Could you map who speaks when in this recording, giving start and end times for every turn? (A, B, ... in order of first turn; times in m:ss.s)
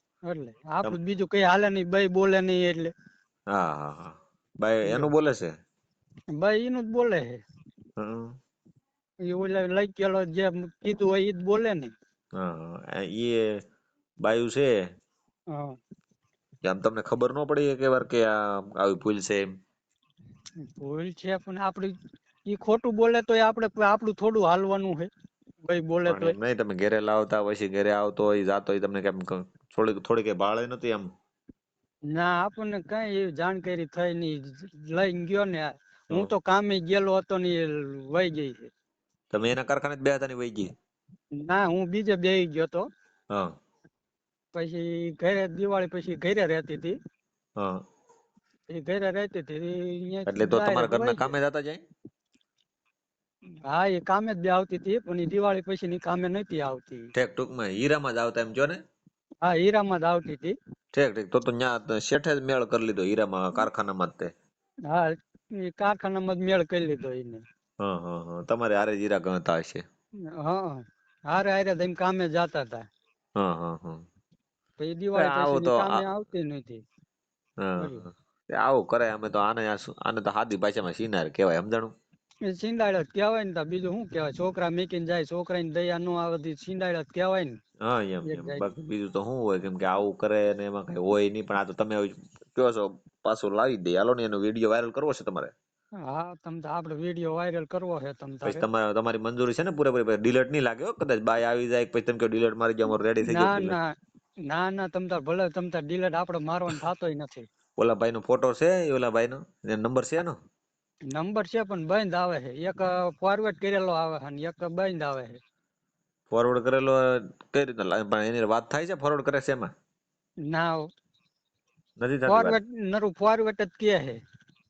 0:00.3-0:02.9 A
0:03.5-0:05.5 B
0:06.4-0:07.4 A
0:08.0-0:08.3 B
0:09.3-0:11.9 A
0:12.4-0:13.4 B
0:14.2-0:14.7 B
0:16.6-0:19.4 B
0:20.6-0:21.9 A
0:22.4-0:25.1 A
0:25.6-0:26.4 A
0:26.1-0:31.1 B
0:32.1-0:38.7 A
0:39.3-0:40.7 B
0:41.4-0:42.8 A
0:44.5-0:47.0 A
0:48.7-0:51.4 A
0:50.3-0:51.8 B
0:53.7-0:57.1 A
0:57.2-0:58.8 B
0:59.4-1:00.5 A
1:00.9-1:04.3 B
1:04.9-1:07.4 A
1:07.8-1:09.8 B
1:10.4-1:12.9 A
1:13.4-1:14.0 B
1:14.8-1:16.8 A
1:15.1-1:16.1 B
1:17.6-1:21.9 B
1:17.8-1:18.0 A
1:22.4-1:27.6 A
1:27.8-1:35.5 B
1:28.2-1:28.7 A
1:36.1-1:38.6 A
1:38.4-1:43.8 B
1:43.2-1:43.9 A
1:44.5-1:47.5 A
1:47.8-1:50.4 B
1:51.1-1:55.4 A
1:56.3-1:59.7 B
2:00.5-2:00.8 A
2:02.0-2:02.6 B
2:02.3-2:04.2 A